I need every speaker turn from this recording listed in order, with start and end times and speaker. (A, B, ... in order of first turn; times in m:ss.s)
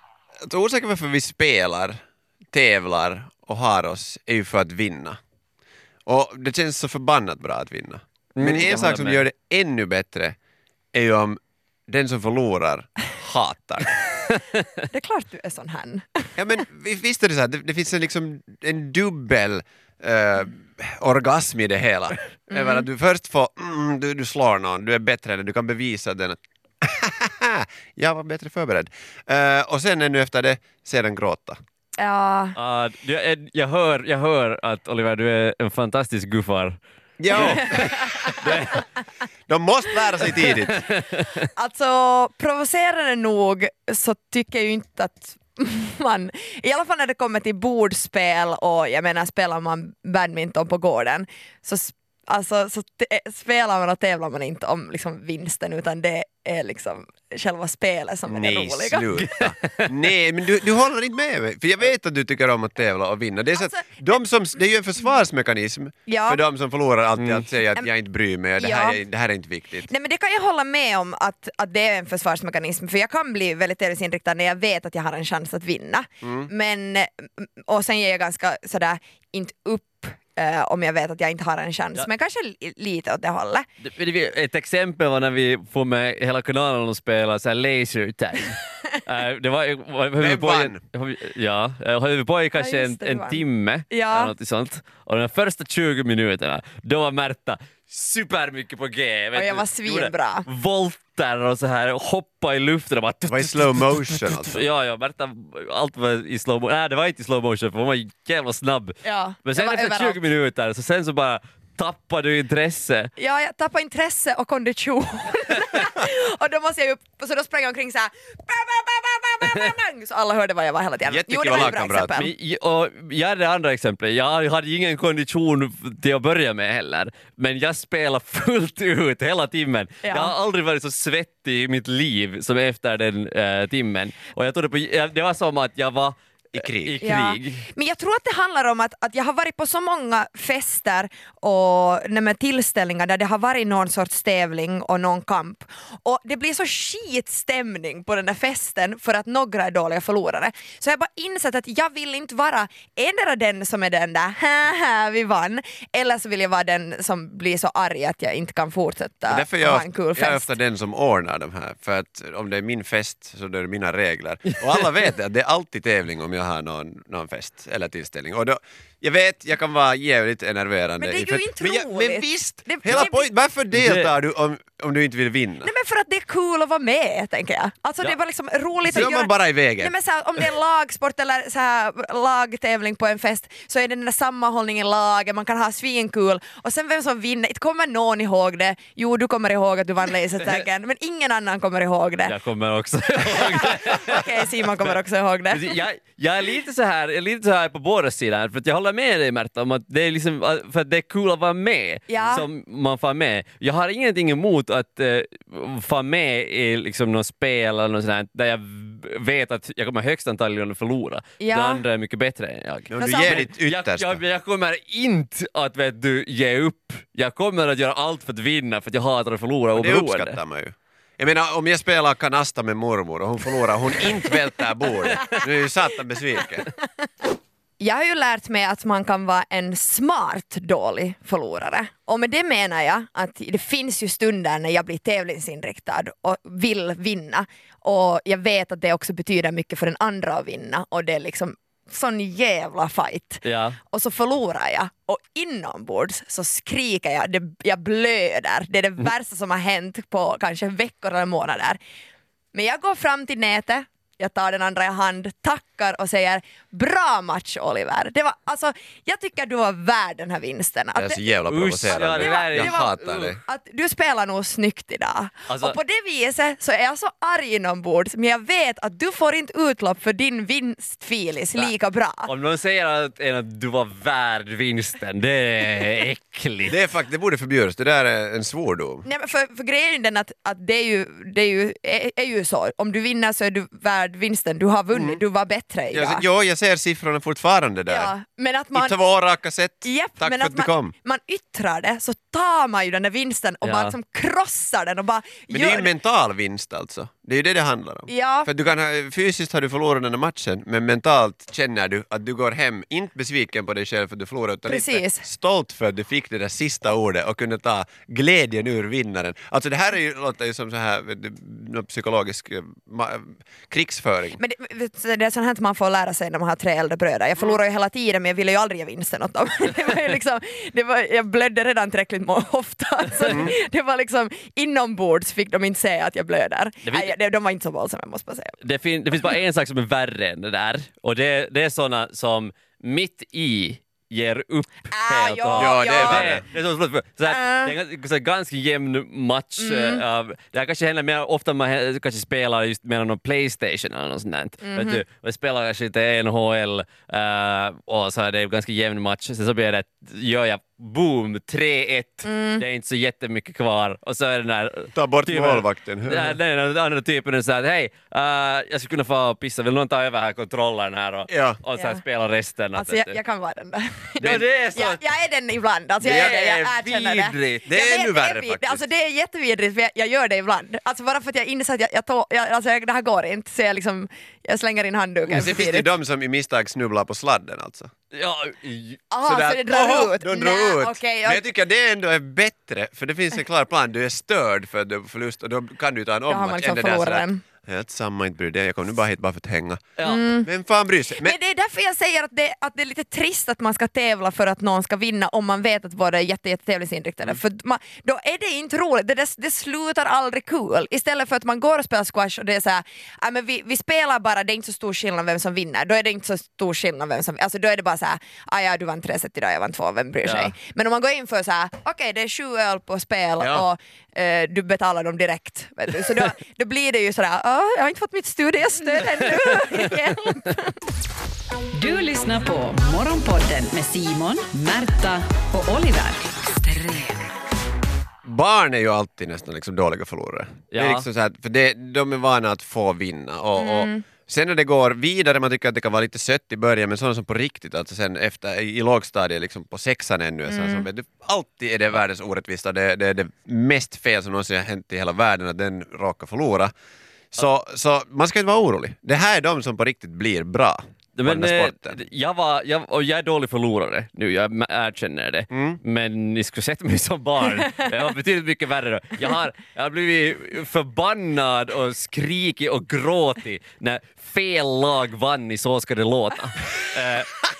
0:00.5-0:02.0 A
0:02.5-0:05.2 A
0:06.0-0:10.4 A
0:08.3-0:09.2 B
0:10.9-0:13.9 A
0:14.3-0:14.6 B
0:14.9-0:16.3 C
0:16.4-0:31.6 A
0:22.5-0:22.8 C
0:32.0-0:32.6 C
0:32.6-0:36.8 B
0:37.2-0:38.6 A
0:37.3-0:38.8 B
0:37.7-0:38.8 C
0:39.5-0:40.9 A
0:40.4-0:41.4 B
0:41.6-0:59.1 C
0:58.3-1:09.9 A
0:59.2-0:59.9 B
1:03.5-1:04.1 C
1:06.1-1:06.4 C
1:07.2-1:07.4 B
1:08.6-1:09.0 C
1:09.8-1:23.6 C
1:16.2-1:16.5 A
1:23.8-1:53.1 B
1:30.2-1:30.8 A
1:32.5-1:34.3 C
1:39.3-1:40.4 C
1:43.3-1:44.6 A
1:49.0-1:50.2 C
1:53.2-2:02.3 C
2:01.0-2:02.3 A
2:01.5-2:17.6 B
2:10.0-2:10.3 C
2:16.5-2:17.0 A
2:17.0-2:40.5 C
2:39.3-2:55.7 A
2:51.0-2:53.3 C
2:53.7-2:54.1 B
2:55.6-3:12.4 C
2:58.9-2:59.9 A
3:10.4-3:10.6 B
3:12.2-3:14.9 B
3:13.4-3:15.7 C
3:15.5-3:40.4 B
3:22.1-3:22.4 C
3:31.4-3:31.8 C
3:32.9-3:34.2 A
3:32.9-3:33.5 C
3:39.7-3:46.7 A
3:47.8-4:11.8 C
4:03.4-4:03.8 B
4:12.5-4:21.2 C
4:20.9-4:23.4 A
4:21.5-4:23.2 B
4:21.9-4:32.3 C
4:25.5-4:25.8 B
4:32.2-4:36.7 B
4:36.6-4:39.0 A
4:39.0-4:46.2 C
4:44.9-4:45.2 A
4:45.9-4:48.1 A
4:47.9-4:49.0 C
4:48.7-4:50.9 A
4:49.8-4:55.9 C
4:53.6-4:53.9 B
4:55.5-5:14.4 A
4:58.1-4:58.5 C
5:04.7-5:05.2 C
5:14.4-5:28.6 C
5:23.2-5:23.5 A
5:26.8-5:27.1 B
5:28.6-6:03.2 B
5:34.9-5:36.4 C
5:35.6-5:36.4 A
5:37.2-5:37.7 C
5:39.6-5:40.0 C
5:44.6-5:45.0 C
5:52.2-5:52.6 C
5:54.9-5:56.4 A
6:01.3-6:01.6 A
6:01.7-6:02.0 C
6:02.8-6:15.9 C
6:04.2-6:05.0 B
6:06.0-6:06.7 A
6:06.0-6:07.7 B
6:07.6-6:08.8 A
6:15.2-6:17.9 A
6:18.1-6:19.0 B
6:19.1-6:21.4 C
6:19.2-6:29.9 A
6:26.3-6:27.4 C
6:30.0-6:30.2 B
6:30.0-6:30.5 C
6:30.4-6:31.4 A
6:31.2-7:00.8 C
6:50.2-6:50.5 B
6:53.4-6:53.6 A
6:59.0-6:59.9 B
7:01.7-7:07.2 D
7:08.2-7:26.7 A
7:10.7-7:11.0 B
7:13.6-7:14.0 C
7:20.5-7:20.9 C
7:27.3-7:32.0 A
7:31.2-7:47.3 B
7:35.5-7:35.8 A